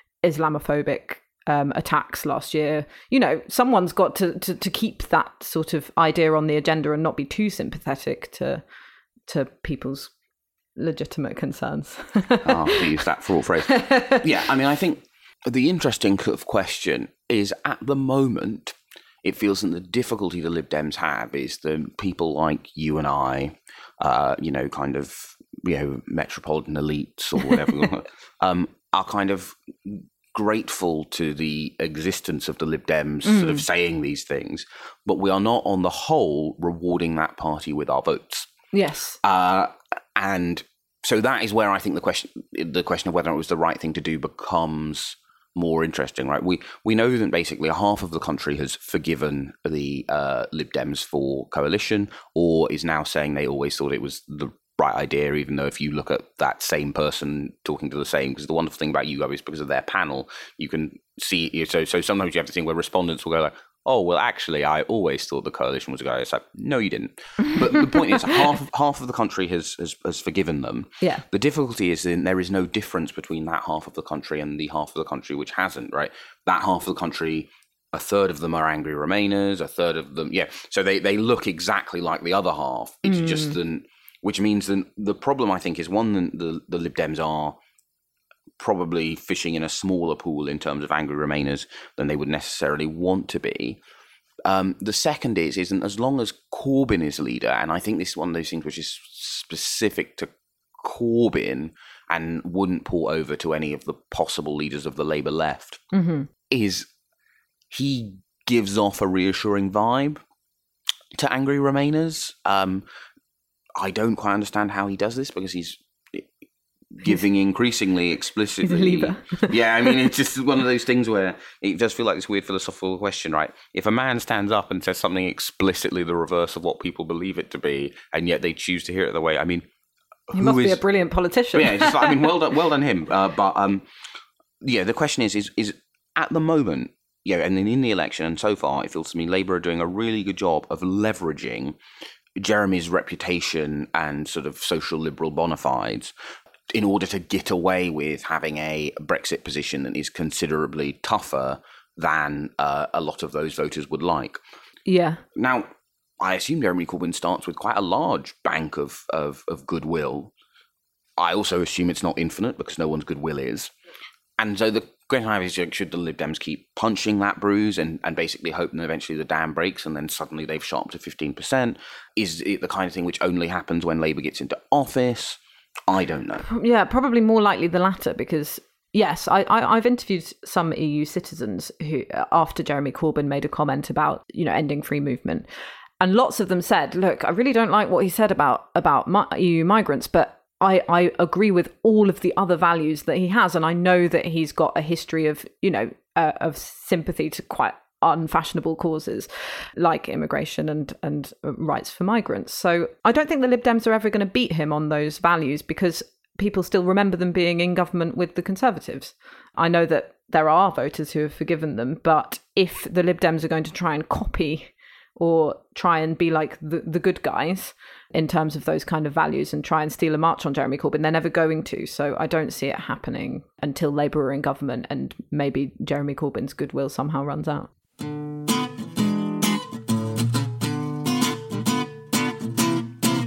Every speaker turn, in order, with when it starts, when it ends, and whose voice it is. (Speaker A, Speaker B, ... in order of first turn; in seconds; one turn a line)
Speaker A: 0.2-8.6
Speaker A: 9.3-10.1
Speaker A: 10.8-12.9
Speaker B: 12.4-38.5
Speaker A: 13.7-14.2
Speaker A: 33.2-33.6
Speaker A: 38.7-39.2
Speaker B: 39.2-87.6
Speaker A: 67.4-68.0
Speaker A: 83.1-83.5
Speaker B: 88.6-93.8
Speaker B: 94.4-105.8
Speaker A: 105.9-106.3
Speaker B: 106.5-106.9
Speaker B: 107.7-110.2
Speaker B: 111.1-112.8
Speaker B: 113.8-116.3
Speaker B: 116.9-129.7
Speaker A: 118.6-119.5
Speaker B: 130.3-130.8
Speaker A: 130.3-132.3
Speaker B: 131.5-133.8
Speaker B: 134.6-141.8
Speaker B: 142.4-146.1
Speaker B: 146.7-154.4
Speaker A: 154.9-155.2
Speaker B: 155.3-160.3
Speaker B: 161.2-163.7
Speaker B: 164.4-176.5
Speaker A: 176.4-185.4
Speaker A: 186.0-227.7